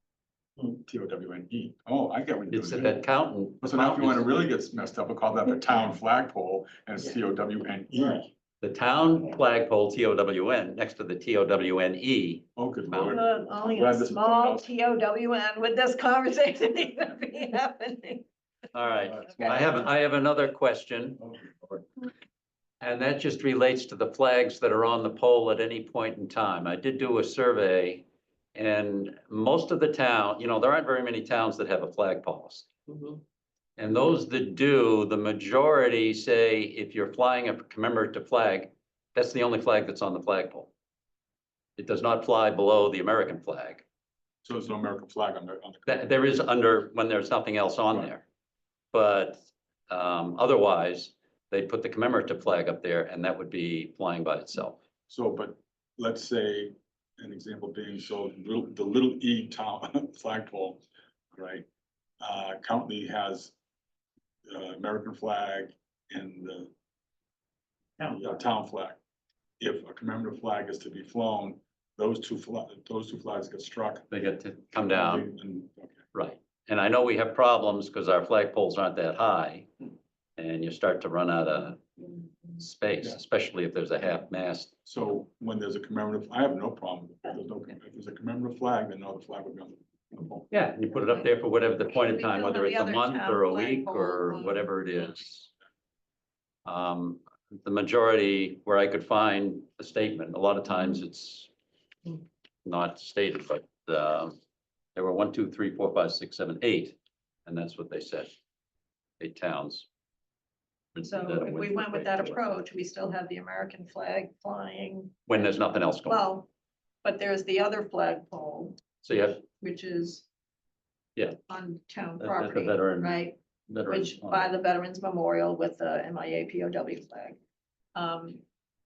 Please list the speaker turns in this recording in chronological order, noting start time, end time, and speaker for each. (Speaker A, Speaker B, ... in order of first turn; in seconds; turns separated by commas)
Speaker A: 0.6-3.0, Speaker B: 2.5-4.3, Speaker A: 3.6-8.3, Speaker B: 8.6-13.2, Speaker A: 12.6-14.7, Speaker C: 13.0-18.3, Speaker B: 18.7-21.2, Speaker A: 19.1-19.8, Speaker A: 21.2-21.5, Speaker B: 22.8-32.7, Speaker B: 33.8-40.7, Speaker B: 41.8-43.8, Speaker A: 44.4-46.2, Speaker B: 45.9-48.2, Speaker B: 48.9-54.8, Speaker A: 55.1-61.7, Speaker A: 62.2-63.5, Speaker A: 64.5-66.7, Speaker A: 68.0-69.0, Speaker A: 69.6-74.1, Speaker B: 74.1-75.3, Speaker A: 74.8-76.0, Speaker B: 76.1-79.7, Speaker B: 80.4-81.8, Speaker B: 82.6-84.7, Speaker A: 84.9-90.5, Speaker B: 90.5-95.5, Speaker C: 92.0-95.0, Speaker B: 96.7-101.5, Speaker B: 102.7-104.4, Speaker B: 105.0-108.3, Speaker B: 109.2-109.9, Speaker B: 111.0-112.5, Speaker C: 111.0-116.5, Speaker B: 115.3-116.2, Speaker C: 117.0-118.8, Speaker B: 119.0-119.4, Speaker C: 119.4-120.3, Speaker C: 121.5-127.4, Speaker B: 122.2-124.5, Speaker C: 128.0-128.4